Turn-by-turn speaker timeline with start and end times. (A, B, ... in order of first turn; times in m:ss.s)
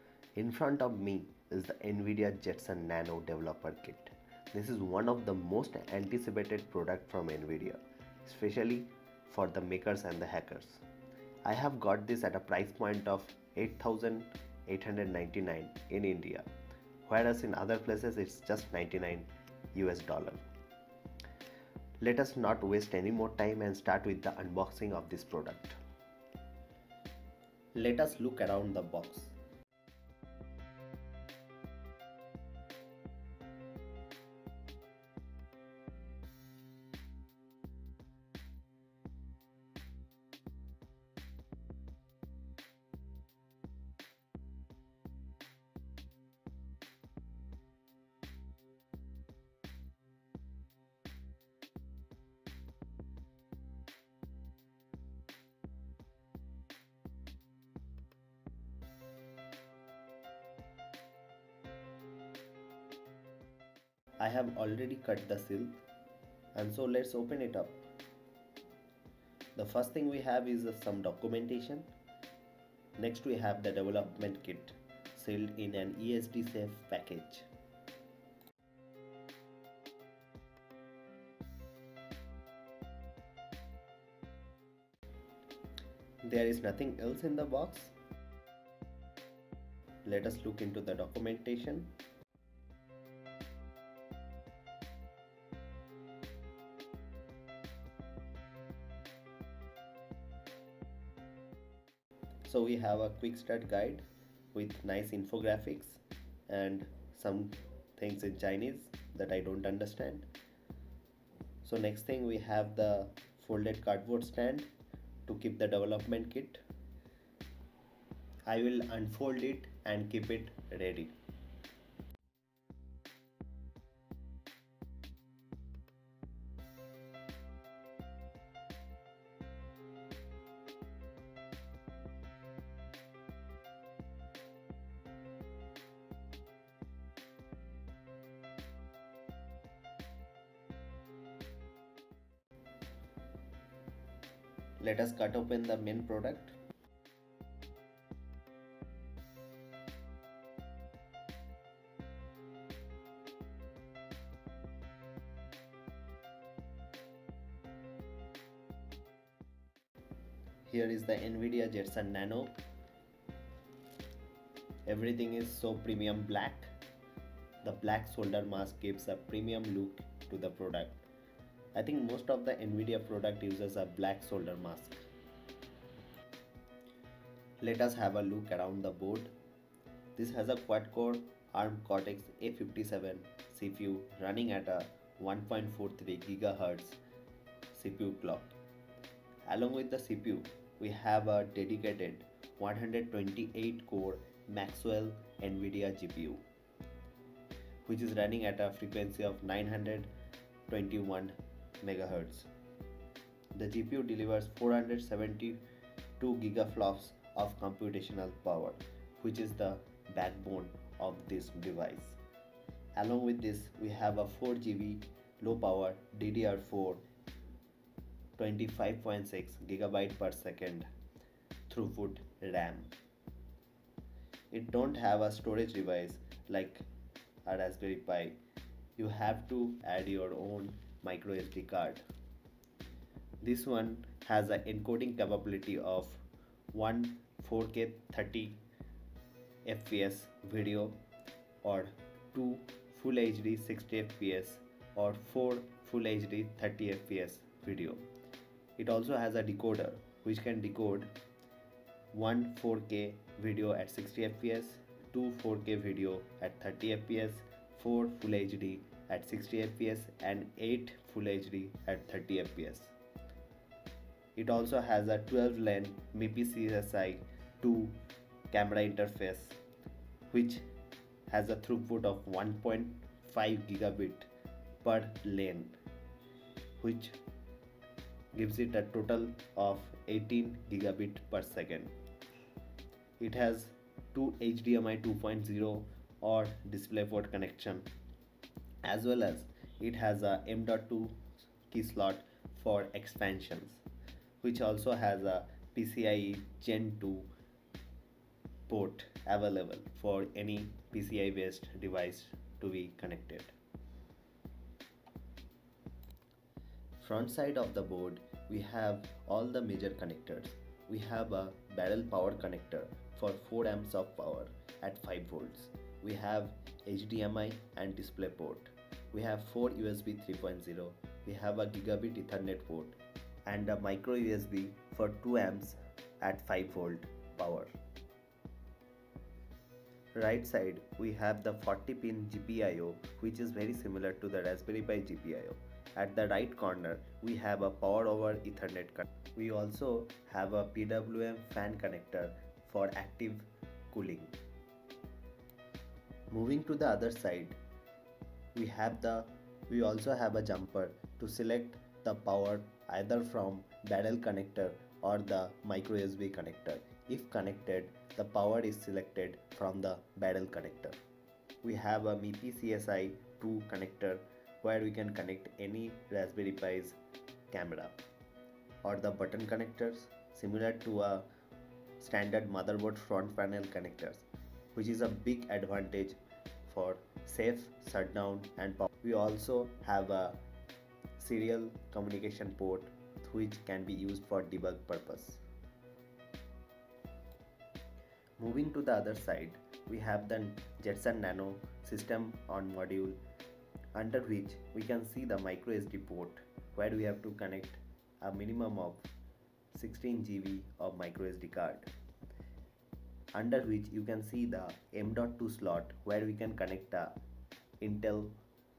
0:00.4-0:10.8 A
0:11.4-0:16.5 A
0:17.1-0:20.4 A
0:22.0-0:25.8 A
0:27.7-0:29.4 A
1:04.2-1:05.8 A
1:06.6-1:07.8 A
1:09.6-1:11.9 A
1:13.0-1:17.5 A
1:26.2-1:27.9 A
1:30.0-1:31.9 A
1:42.5-1:50.3 A
1:51.6-1:54.7 A
1:55.3-1:56.6 A
1:58.5-2:01.2 A
2:24.8-2:26.6 A
2:40.7-2:42.6 A
2:44.9-2:46.7 A
2:47.6-2:51.0 A
2:51.8-2:55.1 A
2:57.6-2:59.3 A
3:00.2-3:07.0 A
3:07.7-3:08.6 A
3:09.4-3:16.4 A
3:17.9-3:20.1 A
3:20.7-3:22.5 A
3:23.5-3:25.6 A
3:26.2-3:32.2 A
3:33.0-3:37.0 A
3:38.4-3:40.9 A
3:41.7-3:42.9 A
3:44.5-3:46.8 A
3:47.4-3:48.4 A
3:49.0-3:52.0 A
3:53.4-3:58.6 A
3:59.6-4:01.0 A
4:01.6-4:08.0 A
4:08.8-4:11.1 A
4:12.1-4:22.9 A
4:24.4-4:28.0 A
4:28.5-4:29.6 A
4:30.3-4:30.6 A
4:31.3-4:34.3 A
4:34.8-4:35.8 A
4:36.8-4:37.2 A
4:38.3-4:41.9 A
4:43.2-4:47.9 A
4:48.8-4:53.8 A
4:54.4-4:57.3 A
4:58.7-5:03.6 A
5:07.0-5:27.7 A
5:30.1-5:44.4 A
5:46.3-5:47.6 A
5:48.5-6:01.0 A
6:01.6-6:07.0 A
6:07.5-6:08.0 A
6:08.8-6:11.3 A
6:12.0-6:20.4 A
6:21.2-6:25.4 A
6:28.4-6:33.2 A
6:33.9-6:39.1 A
6:39.7-6:41.9 A
6:43.3-6:47.2 A
6:47.8-6:48.4 A